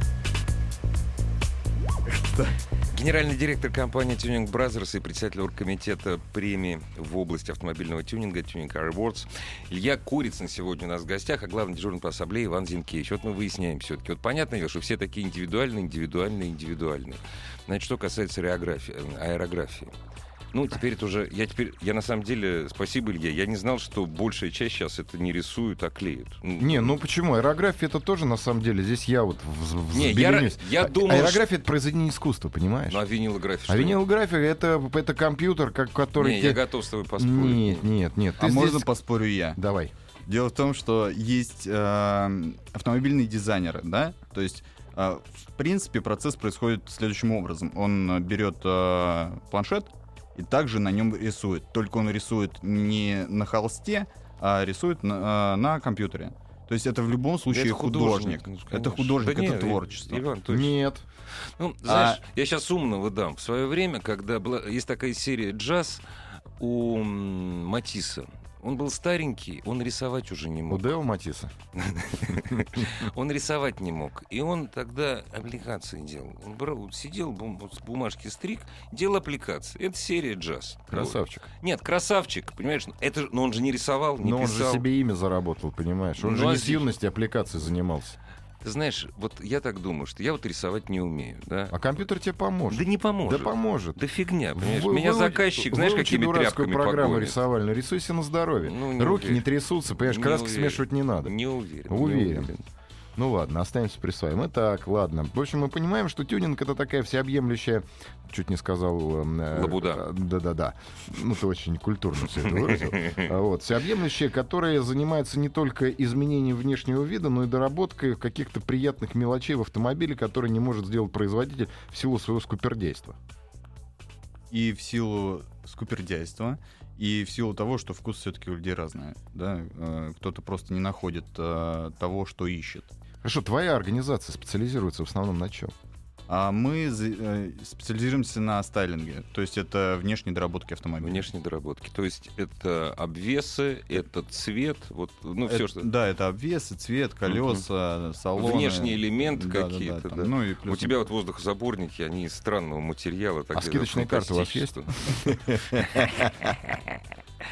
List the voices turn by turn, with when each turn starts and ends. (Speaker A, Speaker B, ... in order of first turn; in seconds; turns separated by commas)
Speaker A: 2.1-2.6, Speaker B: 2.9-19.9, Speaker B: 20.5-26.9, Speaker C: 26.6-33.0, Speaker B: 29.9-31.4, Speaker B: 32.9-34.0, Speaker C: 33.7-36.6, Speaker B: 36.1-37.8, Speaker C: 37.2-38.9, Speaker A: 38.4-39.6, Speaker C: 39.6-39.9, Speaker A: 40.3-60.2, Speaker B: 57.5-60.8, Speaker C: 60.5-61.0, Speaker B: 61.4-66.0, Speaker A: 61.8-62.2, Speaker B: 66.6-70.9, Speaker C: 70.7-71.5, Speaker B: 71.7-84.8, Speaker C: 80.9-81.4, Speaker C: 84.2-88.2, Speaker B: 86.2-86.9, Speaker B: 88.6-91.9, Speaker C: 91.7-94.0, Speaker B: 92.7-97.4, Speaker C: 94.5-101.3, Speaker B: 98.6-99.4, Speaker B: 100.0-102.6, Speaker C: 101.9-102.5, Speaker C: 103.2-123.2, Speaker B: 109.5-110.0, Speaker B: 112.6-113.2, Speaker A: 124.5-132.9, Speaker C: 133.2-135.7, Speaker A: 136.3-141.3, Speaker B: 141.0-145.9, Speaker A: 145.5-150.9, Speaker B: 147.3-147.6, Speaker B: 148.4-156.8, Speaker C: 153.5-156.5